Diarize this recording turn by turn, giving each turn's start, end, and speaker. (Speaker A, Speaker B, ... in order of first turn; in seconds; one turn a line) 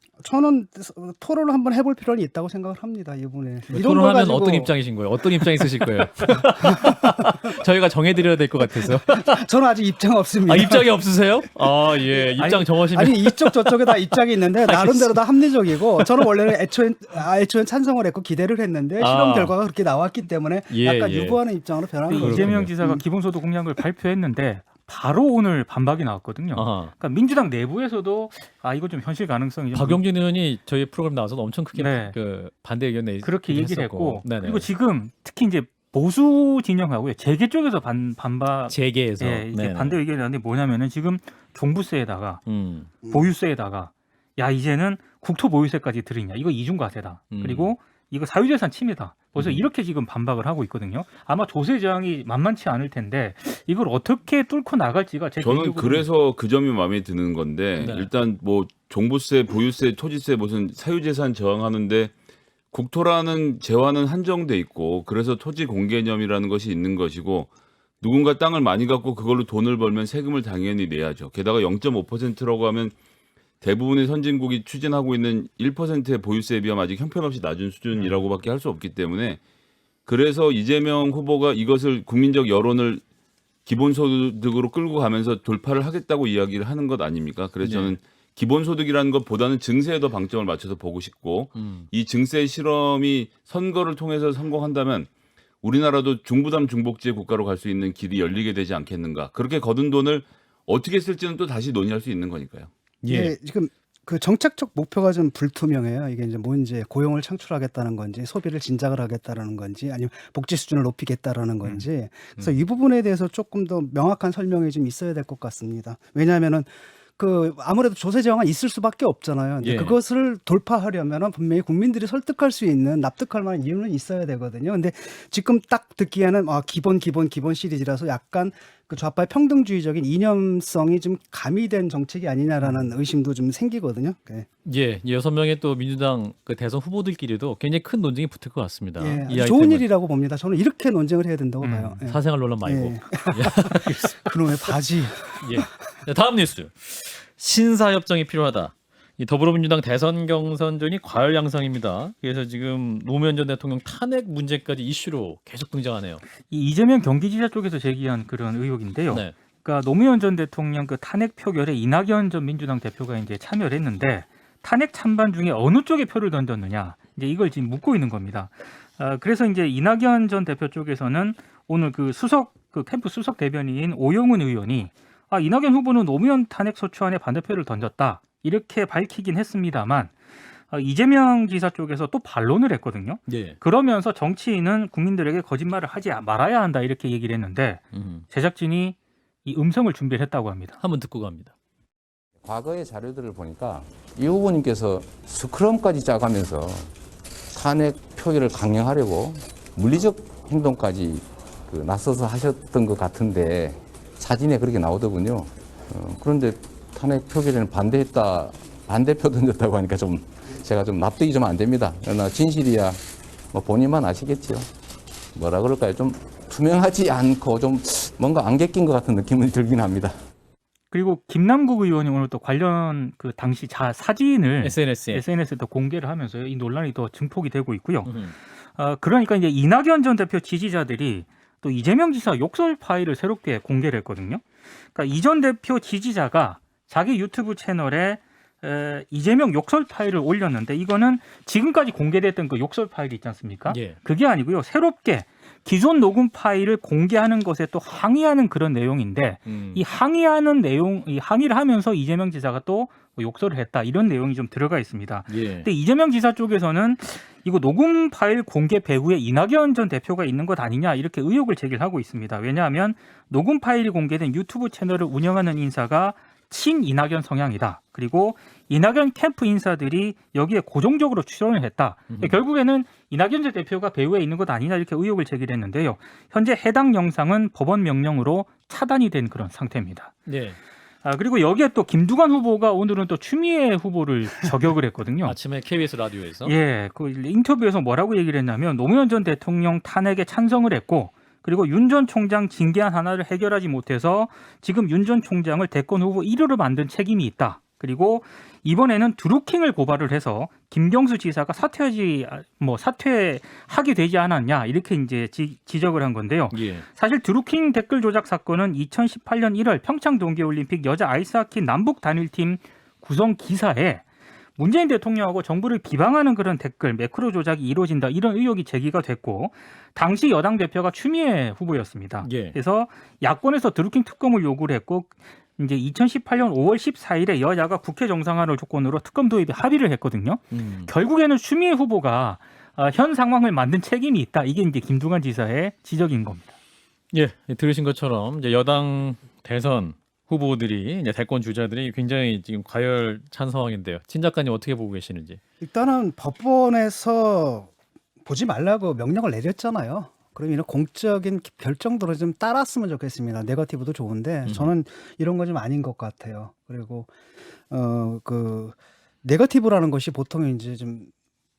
Speaker A: 0.2-4.7
Speaker B: 3.7-9.4
Speaker A: 5.3-7.6
Speaker A: 8.6-10.9
Speaker B: 10.4-16.3
Speaker A: 11.6-23.0
Speaker B: 19.0-19.6
Speaker B: 20.7-21.4
Speaker C: 22.1-30.0
Speaker B: 22.1-22.7
Speaker B: 26.5-26.9
Speaker B: 29.7-34.7
Speaker C: 31.7-32.2
Speaker C: 33.2-42.4
Speaker B: 38.7-40.0
Speaker B: 42.5-42.9
Speaker C: 43.1-56.1
Speaker B: 47.3-47.7
Speaker B: 49.4-49.7
Speaker D: 55.4-62.1
Speaker B: 57.8-58.1
Speaker D: 62.7-67.5
Speaker D: 68.0-73.0
Speaker D: 73.6-79.4
Speaker D: 80.1-83.0
Speaker D: 83.7-95.1
Speaker B: 87.6-88.0
Speaker B: 91.6-91.9
Speaker D: 95.6-102.7
Speaker B: 103.0-103.3
Speaker A: 103.1-134.5
Speaker B: 111.6-112.6
Speaker B: 119.6-120.0
Speaker B: 132.6-132.9
Speaker B: 134.7-139.8
Speaker A: 139.0-145.7
Speaker C: 141.6-142.0
Speaker B: 142.1-144.8
Speaker B: 145.4-156.2
Speaker C: 156.5-180.2
Speaker B: 159.1-159.3
Speaker C: 180.7-190.8
Speaker B: 183.3-183.6
Speaker B: 187.9-188.2
Speaker B: 190.8-191.5
Speaker E: 192.4-196.9
Speaker E: 197.5-213.0
Speaker E: 213.5-214.7
Speaker E: 215.3-220.2
Speaker C: 220.9-280.2
Speaker B: 224.6-225.2
Speaker B: 228.0-228.3
Speaker B: 243.7-244.0
Speaker B: 249.5-249.8
Speaker B: 255.3-255.7
Speaker B: 272.1-272.4
Speaker B: 280.3-280.6
Speaker C: 281.0-285.4
Speaker B: 285.2-286.6
Speaker C: 286.4-314.0
Speaker B: 306.5-306.9
Speaker C: 314.6-336.5
Speaker B: 322.2-322.6
Speaker B: 330.5-330.9
Speaker B: 337.1-345.4
Speaker A: 345.6-347.7
Speaker A: 348.2-357.1
Speaker B: 354.4-354.7
Speaker A: 357.7-361.1